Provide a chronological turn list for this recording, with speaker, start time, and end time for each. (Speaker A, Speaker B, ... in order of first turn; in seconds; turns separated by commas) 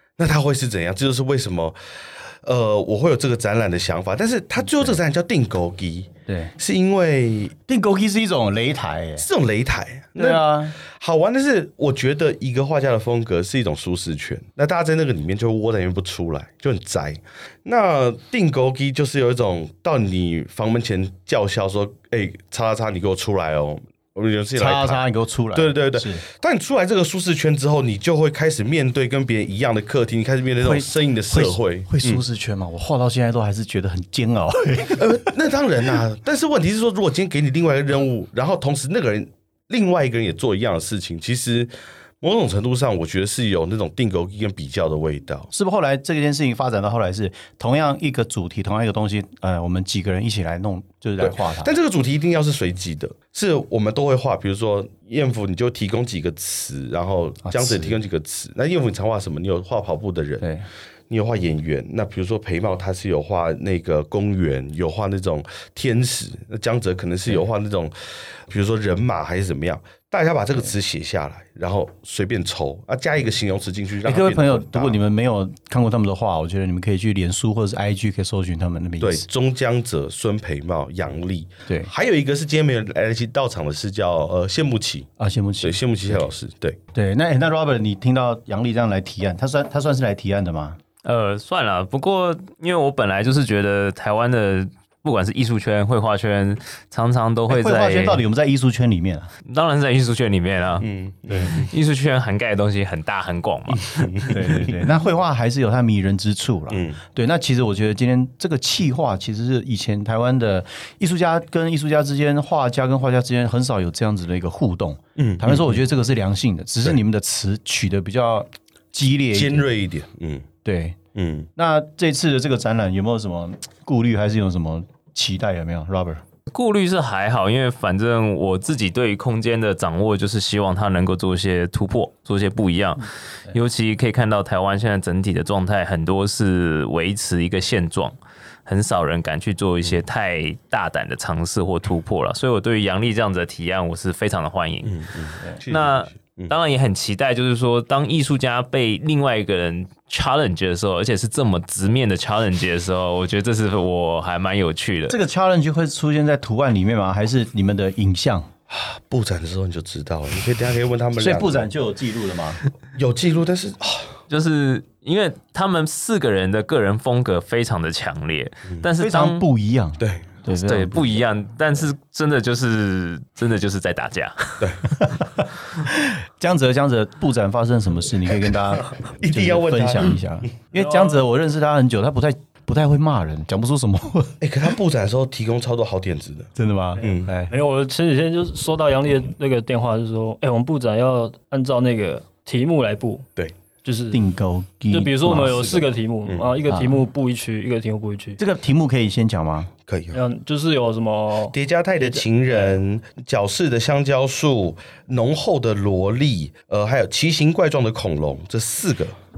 Speaker A: 0.2-1.8, Speaker A: 2.4-7.5, Speaker B: 6.3-6.5, Speaker B: 7.7-9.3, Speaker A: 9.2-25.0, Speaker B: 10.2-10.8, Speaker B: 24.6-26.2, Speaker A: 25.6-32.2, Speaker B: 30.6-35.2, Speaker A: 35.0-45.5, Speaker B: 45.5-51.7, Speaker A: 51.2-60.5, Speaker B: 57.4-58.0, Speaker B: 60.4-60.7, Speaker A: 61.1-75.0, Speaker B: 74.0-79.3, Speaker A: 79.0-85.1, Speaker B: 85.2-86.2, Speaker A: 85.6-86.8, Speaker B: 86.9-90.8, Speaker C: 91.0-98.2, Speaker B: 97.5-99.3, Speaker C: 99.5-104.7, Speaker A: 100.8-101.7, Speaker B: 101.3-101.5, Speaker A: 104.0-104.6, Speaker B: 104.3-119.7, Speaker A: 106.7-107.0, Speaker A: 115.2-115.8, Speaker A: 119.3-120.5, Speaker B: 120.7-121.0, Speaker A: 121.2-121.5, Speaker B: 121.6-126.2, Speaker C: 126.5-145.0, Speaker A: 144.8-146.5, Speaker C: 145.7-155.2, Speaker B: 155.1-158.5, Speaker A: 158.7-161.7, Speaker B: 161.2-162.6, Speaker A: 162.9-164.2, Speaker C: 164.3-169.4, Speaker B: 169.0-171.2, Speaker A: 170.0-170.3, Speaker C: 170.5-174.7, Speaker B: 175.0-184.4, Speaker A: 179.2-180.2, Speaker D: 180.8-181.2, Speaker A: 184.4-187.3, Speaker B: 186.6-187.5, Speaker D: 187.0-193.3, Speaker D: 193.8-194.2, Speaker B: 194.1-195.9, Speaker D: 194.9-198.4, Speaker A: 196.3-196.6, Speaker B: 196.7-197.0, Speaker B: 198.4-199.7, Speaker A: 199.9-200.2, Speaker D: 200.1-202.8, Speaker A: 201.5-209.2